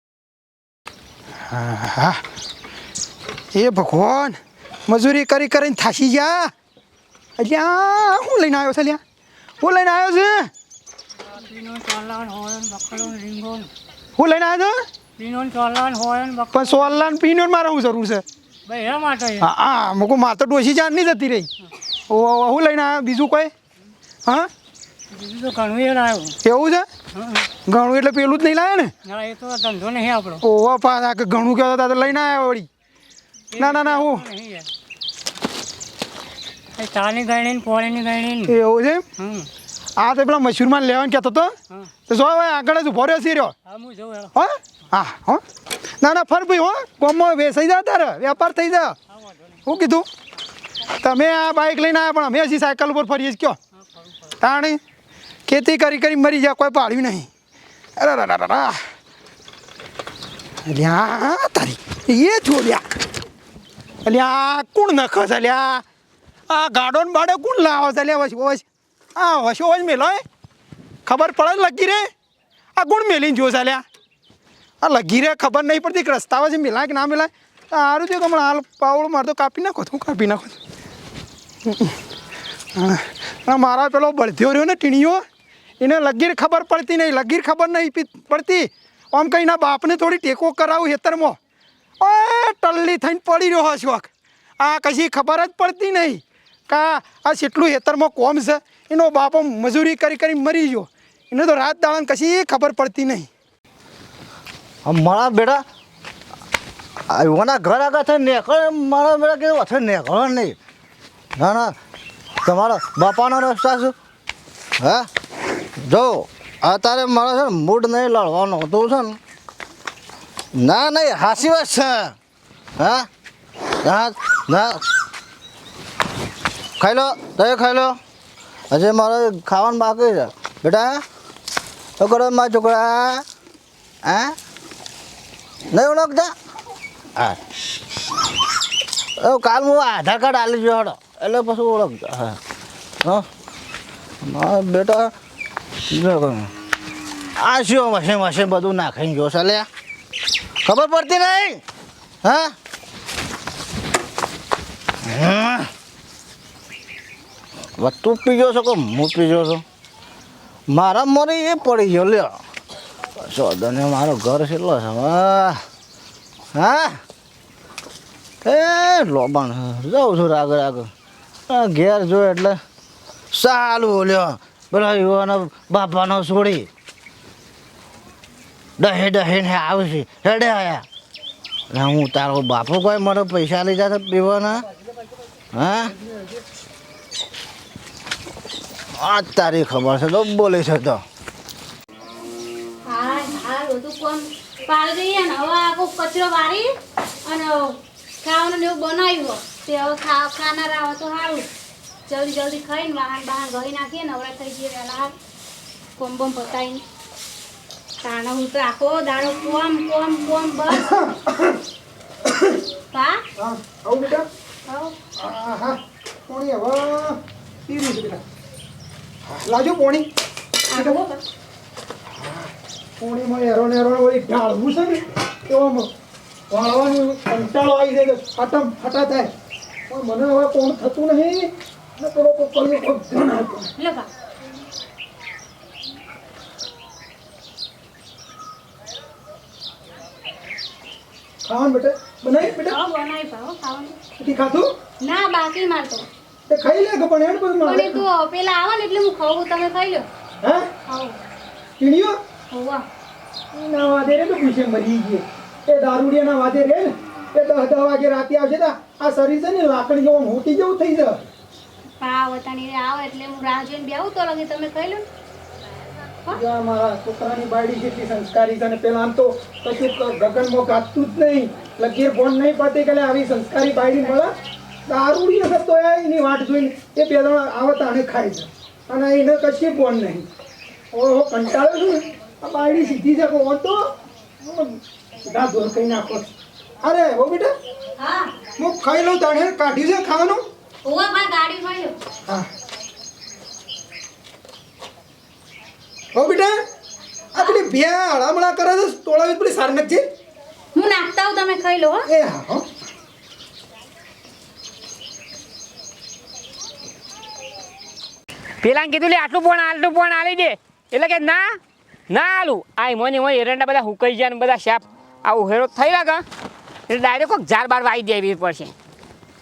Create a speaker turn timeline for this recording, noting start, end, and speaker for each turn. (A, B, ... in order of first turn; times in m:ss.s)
0:01.5-0:02.2 A
0:03.5-0:06.5 A
0:07.4-0:09.0 A
0:09.6-0:10.5 A
0:11.4-0:13.7 B
0:14.2-0:14.8 A
0:15.2-0:16.5 B
0:16.5-0:18.2 A
0:18.7-0:19.4 B
0:19.4-0:21.5 A
0:22.1-0:23.5 A
0:25.2-0:26.4 B
0:26.4-0:26.8 A
0:27.7-0:28.9 A
0:29.1-0:30.4 B
0:30.4-0:32.7 A
0:33.6-0:34.7 B
0:33.6-0:34.3 A
0:36.8-0:38.5 B
0:38.5-0:39.0 A
0:39.2-0:39.5 B
0:40.0-0:41.5 A
0:42.1-0:43.6 A
0:43.7-0:44.3 B
0:44.3-0:45.4 A
0:46.0-0:49.0 A
0:49.7-0:50.0 A
0:51.0-0:53.6 A
0:54.4-0:54.8 A
0:55.5-0:57.3 A
0:58.0-0:58.8 A
1:00.6-1:02.8 A
1:04.0-1:05.8 A
1:06.5-1:08.6 A
1:09.2-1:10.2 A
1:11.1-1:12.1 A
1:12.8-1:13.8 A
1:14.8-1:20.6 A
1:21.6-1:22.0 A
1:22.8-1:25.2 A
1:25.8-1:31.4 A
1:32.0-1:34.1 A
1:34.6-1:43.3 A
1:44.8-1:45.6 C
1:47.1-1:50.6 C
1:51.4-1:51.8 C
1:52.4-1:54.0 C
1:54.8-1:55.1 C
1:55.8-1:59.2 C
2:00.5-2:02.1 C
2:02.8-2:03.1 C
2:03.8-2:04.8 C
2:06.8-2:08.0 C
2:08.7-2:11.0 C
2:12.0-2:13.2 C
2:14.0-2:14.3 C
2:15.7-2:16.3 C
2:19.2-2:22.4 C
2:24.2-2:25.1 C
2:25.9-2:26.5 C
2:27.4-2:29.7 C
2:30.6-2:31.6 C
2:32.2-2:32.5 C
2:35.0-2:35.7 C
2:37.8-2:39.6 C
2:40.7-2:42.4 C
2:43.2-2:45.6 C
2:46.5-2:47.0 C
2:48.4-2:50.9 C
2:51.5-2:52.6 C
2:53.3-2:56.7 C
2:58.8-3:00.8 C
3:01.7-3:04.7 C
3:05.5-3:05.9 C
3:08.9-3:11.0 C
3:12.8-3:16.7 D
3:17.2-3:21.5 D
3:22.1-3:25.1 D
3:26.0-3:26.8 D
3:28.0-3:30.9 D
3:30.7-3:31.6 A
3:32.3-3:32.6 A
3:32.9-3:33.2 D
3:33.4-3:34.3 A
3:34.7-3:35.0 D
3:35.2-3:38.2 A
3:39.3-3:40.1 A
3:40.7-3:41.2 D
3:40.7-3:41.0 A
3:43.0-3:45.9 A
3:46.5-3:49.3 A
3:49.9-3:53.7 A
3:53.8-3:54.1 D
4:01.4-4:02.8 A
4:02.6-4:03.9 D
4:04.2-4:04.7 A
4:05.0-4:06.1 D
4:06.5-4:08.0 A
4:07.6-4:10.0 D
4:10.4-4:10.7 A
4:10.9-4:11.2 D
4:11.8-4:12.2 A
4:12.5-4:12.8 D
4:13.5-4:21.2 A
4:22.0-4:25.0 D
4:26.3-4:34.3 A
4:34.9-4:40.3 A
4:40.9-4:43.9 A
4:44.4-4:46.3 A
4:46.8-4:47.5 A
4:48.0-4:48.3 D
4:48.6-4:50.4 A
4:50.8-4:51.9 D
4:56.1-4:56.6 A
4:57.3-5:00.0 A
5:00.8-5:02.0 D
5:02.1-5:02.6 A
5:08.6-5:16.2 E
5:16.9-5:18.7 E